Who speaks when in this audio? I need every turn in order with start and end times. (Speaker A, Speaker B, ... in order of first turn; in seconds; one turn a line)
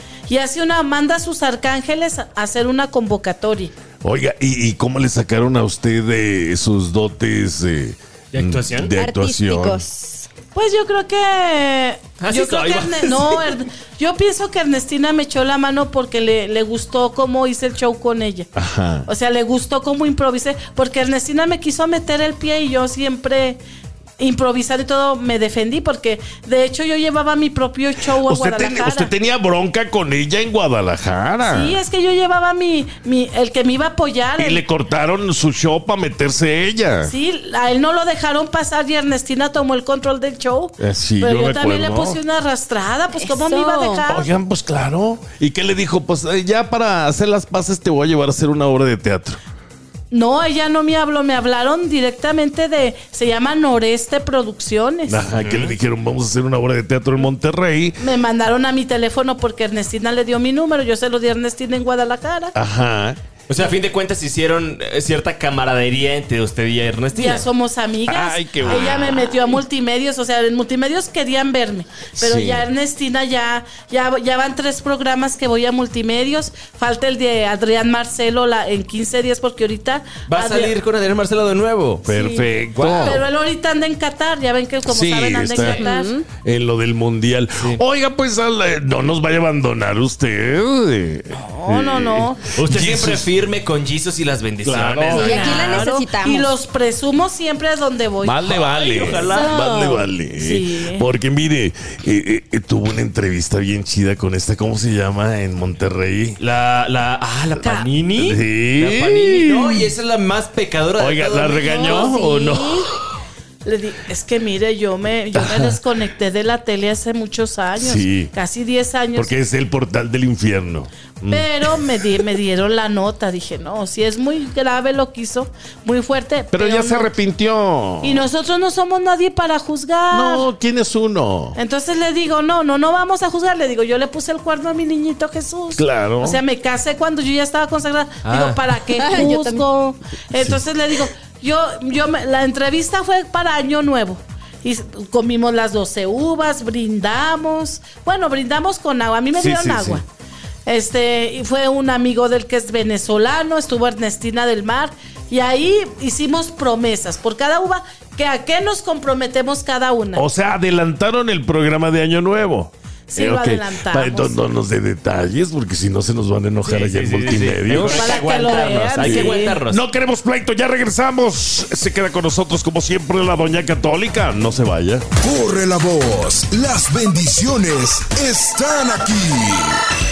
Speaker A: 0.3-3.7
Speaker B: 4.0-9.8
Speaker C: 8.3-8.9
Speaker D: 8.9-10.3
Speaker A: 10.5-18.5
Speaker C: 12.2-13.4
Speaker B: 18.5-19.1
Speaker A: 19.0-23.6
Speaker A: 24.2-29.1
Speaker B: 28.1-31.8
Speaker A: 31.4-34.6
Speaker B: 34.4-37.1
Speaker A: 37.0-44.3
Speaker B: 40.8-42.2
Speaker D: 43.1-44.0
Speaker B: 44.1-49.4
Speaker A: 50.1-55.2
Speaker B: 55.1-58.0
Speaker C: 55.4-55.7
Speaker A: 58.0-62.5
Speaker B: 62.5-63.2
Speaker C: 63.5-67.5
Speaker A: 67.1-80.8
Speaker B: 68.1-69.5
Speaker B: 72.2-72.7
Speaker C: 80.3-82.1
Speaker B: 82.0-83.2
Speaker A: 82.1-86.1
Speaker C: 82.7-83.2
Speaker B: 84.8-85.8
Speaker D: 85.6-86.2
Speaker B: 86.4-93.3
Speaker C: 87.6-87.8
Speaker A: 91.3-92.4
Speaker C: 92.5-95.9
Speaker B: 94.6-95.4
Speaker D: 95.1-96.5
Speaker A: 95.1-98.4
Speaker B: 98.2-106.4
Speaker C: 98.4-99.5
Speaker D: 99.3-100.0
Speaker A: 100.4-101.1
Speaker C: 106.4-112.1
Speaker A: 107.6-107.9
Speaker B: 108.2-109.9
Speaker B: 111.0-112.9
Speaker D: 111.6-112.9
Speaker A: 113.6-119.3
Speaker B: 115.3-115.8
Speaker B: 117.8-118.3
Speaker B: 119.1-122.2
Speaker A: 121.3-127.1
Speaker B: 126.5-128.3
Speaker A: 128.0-130.5
Speaker B: 130.1-131.6
Speaker A: 131.5-150.0
Speaker B: 135.7-136.4
Speaker C: 138.2-138.7
Speaker D: 138.9-139.6
Speaker B: 140.3-140.6
Speaker B: 149.3-150.0
Speaker A: 150.7-160.2
Speaker B: 160.1-175.1
Speaker A: 163.1-164.4
Speaker C: 166.6-169.8
Speaker A: 167.8-169.6
Speaker E: 175.2-179.8